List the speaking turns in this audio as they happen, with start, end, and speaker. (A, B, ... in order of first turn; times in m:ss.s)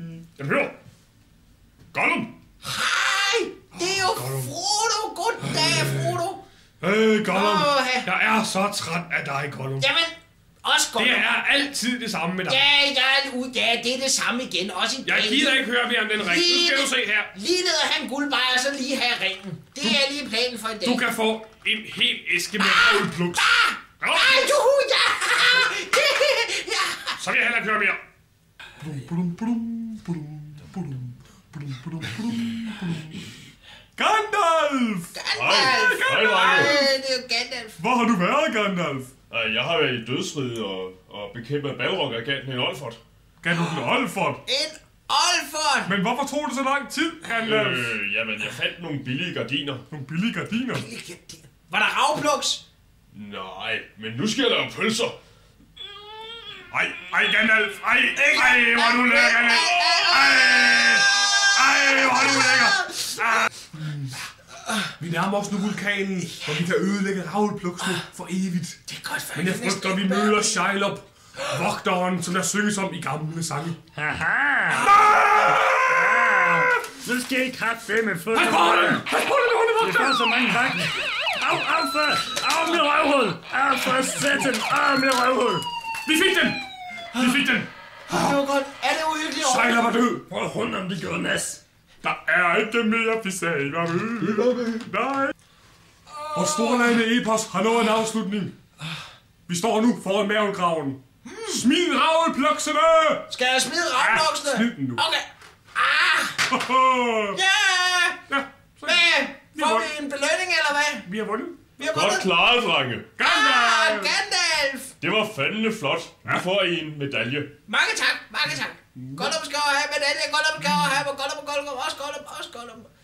0:00.2-0:00.7 A
0:01.9-0:02.3 A
0:02.6-0:06.4 B
0:03.7-0:04.5 A
0:05.4-0:06.2 A
0:06.8-0:09.9 A
0:07.3-0:08.1 B
0:09.8-0:11.3 B
0:11.0-0:12.6 A
0:12.5-0:15.6 B
0:15.0-0:17.3 A
0:16.2-0:21.0 B
0:20.8-0:24.6 A
0:22.6-0:27.2 B
0:27.2-0:28.0 A
0:28.8-0:33.2 A
0:34.0-0:36.9 A
0:35.1-0:37.8 B
0:35.3-0:36.8 C
0:37.8-0:39.1 A
0:39.3-0:43.0 C
0:43.4-0:44.4 A
0:43.5-0:43.8 B
0:44.4-0:45.9 B
0:45.8-0:47.9 A
0:47.3-0:49.8 C
0:49.9-0:50.9 A
0:50.7-0:52.6 B
0:53.1-0:55.2 C
0:56.7-1:04.2 A
0:58.2-1:03.1 B
1:05.0-1:08.8 A
1:06.3-1:06.6 B
1:08.9-1:10.6 B
1:09.3-1:13.8 A
1:13.9-1:19.0 D
1:14.8-1:15.8 A
1:18.3-1:20.6 A
1:19.8-1:25.7 D
1:26.0-1:27.7 A
1:27.1-1:27.4 B
1:28.1-1:29.8 B
1:29.4-1:30.2 A
1:30.3-1:31.6 D
1:32.0-1:35.3 A
1:34.3-1:34.7 C
1:36.1-1:37.0 B
1:36.3-1:38.5 A
1:39.5-1:43.3 A
1:41.2-1:41.6 B
1:43.3-1:46.4 B
1:44.0-1:45.0 A
1:46.5-1:47.4 A
1:47.3-1:48.2 B
1:48.3-1:49.9 A
1:48.8-1:51.0 B
1:51.0-1:51.8 A
1:51.8-1:52.3 B
1:51.8-1:53.1 C
1:53.2-1:54.2 A
1:53.2-1:54.9 B
1:55.0-1:57.5 C
1:57.7-2:02.9 B
1:59.0-1:59.4 A